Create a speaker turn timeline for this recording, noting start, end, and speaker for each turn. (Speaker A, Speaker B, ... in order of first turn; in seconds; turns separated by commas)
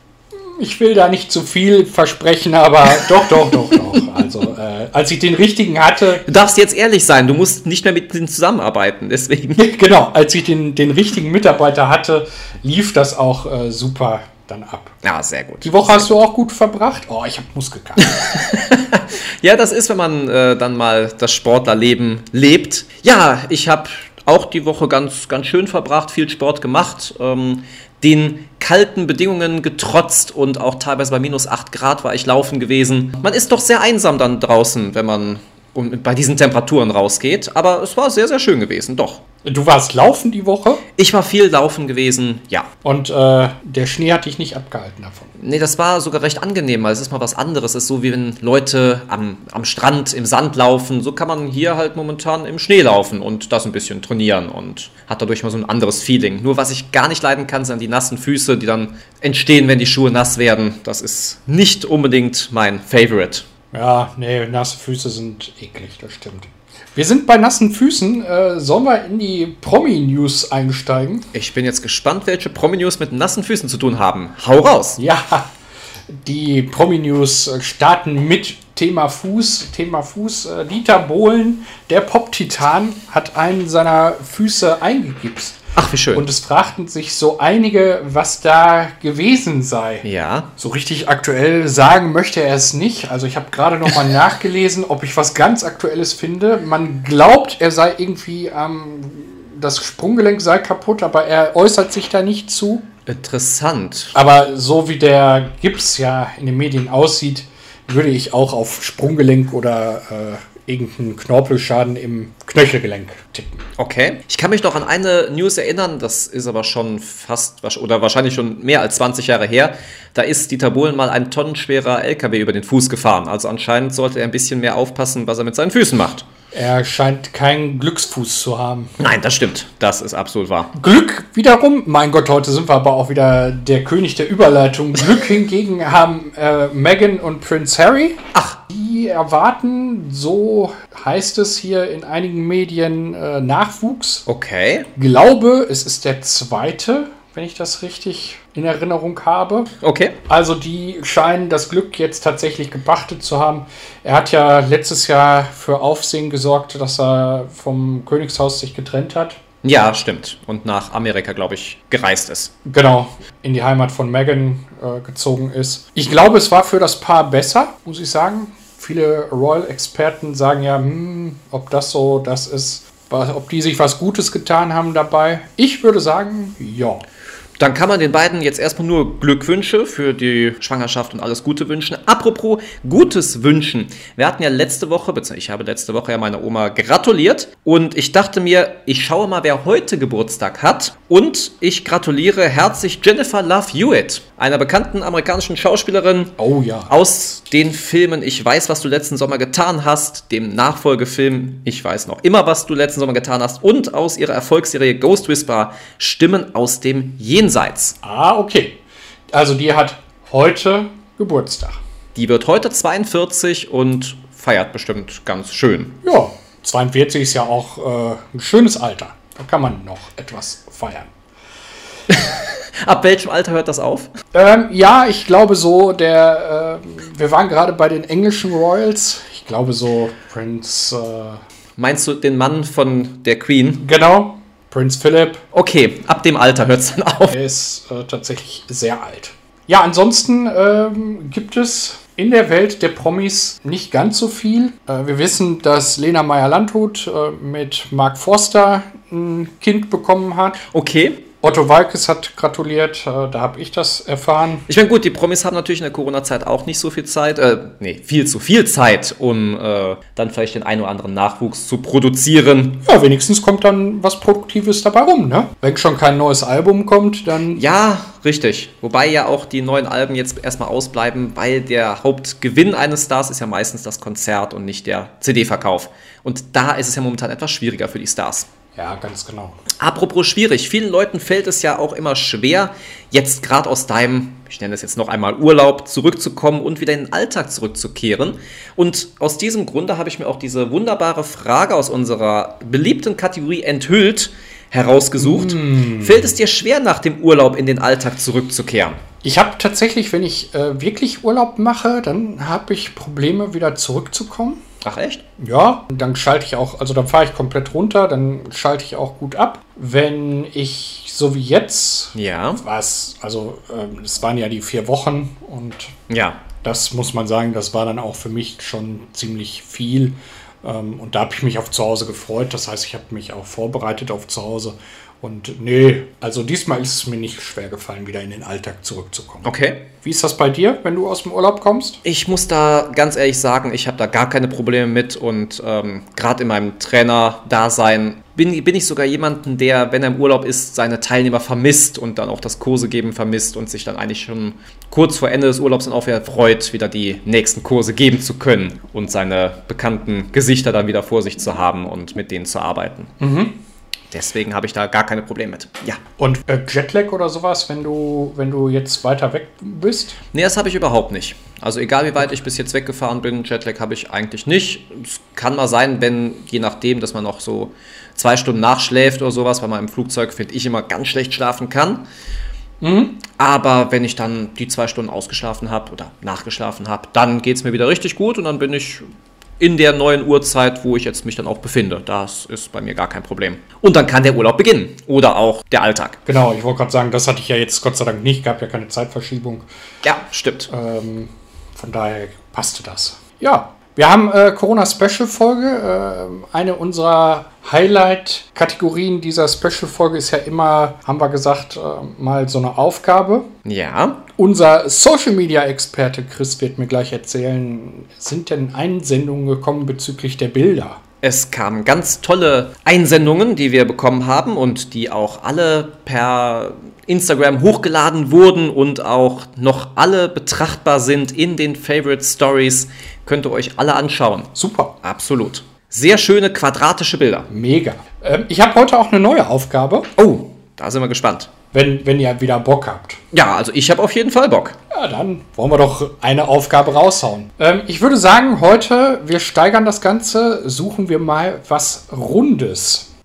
Speaker A: 0.6-6.2, Speaker B: 3.0-3.7, Speaker B: 6.2-9.7, Speaker A: 9.6-14.9, Speaker B: 15.0-16.1, Speaker A: 15.6-18.1, Speaker B: 18.0-39.2, Speaker A: 39.4-40.8, Speaker B: 41.0-42.7, Speaker A: 42.8-45.3, Speaker B: 45.4-63.5, Speaker A: 63.7-71.3, Speaker B: 71.3-75.0, Speaker A: 75.0-75.5, Speaker A: 76.2-85.6, Speaker B: 85.8-86.2, Speaker A: 86.1-90.0, Speaker B: 90.0-90.5, Speaker A: 90.6-102.9, Speaker B: 103.1-104.1, Speaker A: 104.1-113.6, Speaker B: 113.8-126.2, Speaker A: 126.5-128.9, Speaker B: 129.0-130.7, Speaker A: 130.7-144.2, Speaker B: 138.3-138.6, Speaker B: 144.2-144.9, Speaker A: 144.9-149.7, Speaker B: 149.8-150.1, Speaker A: 150.3-159.4, Speaker B: 159.6-162.5, Speaker A: 162.6-177.0, Speaker B: 177.6-196.3, Speaker A: 196.4-196.9, Speaker B: 196.9-207.9, Speaker A: 208.0-208.8, Speaker A: 209.3-211.8, Speaker B: 212.1-215.9, Speaker A: 216.0-221.1, Speaker B: 222.1-224.1, Speaker A: 224.3-231.4, Speaker B: 231.8-233.8, Speaker A: 233.8-235.4, Speaker B: 235.5-237.3, Speaker A: 237.3-250.7, Speaker B: 250.7-251.2, Speaker A: 251.4-254.7, Speaker B: 254.7-262.8, Speaker A: 262.8-267.6, Speaker B: 267.5-278.5, Speaker A: 278.8-279.6, Speaker B: 279.8-299.0, Speaker A: 295.2-296.4, Speaker A: 299.2-304.6, Speaker B: 304.8-305.2, Speaker A: 305.4-315.9, Speaker B: 312.1-312.6, Speaker B: 316.1-316.4, Speaker A: 316.6-329.5, Speaker B: 329.4-329.9, Speaker A: 330.0-332.0, Speaker B: 332.0-353.1, Speaker A: 353.2-353.6, Speaker B: 354.1-356.0, Speaker A: 356.2-360.2, Speaker B: 360.3-372.0, Speaker A: 372.8-373.2, Speaker B: 373.4-379.0, Speaker B: 379.6-386.2, Speaker A: 386.2-389.6, Speaker B: 390.0-390.7, Speaker A: 390.7-403.5, Speaker B: 403.6-404.2, Speaker A: 404.3-411.0, Speaker B: 411.2-427.5, Speaker A: 424.5-425.0, Speaker A: 427.5-430.1, Speaker B: 430.2-431.5, Speaker A: 431.7-433.2, Speaker B: 433.3-434.8, Speaker A: 434.9-443.1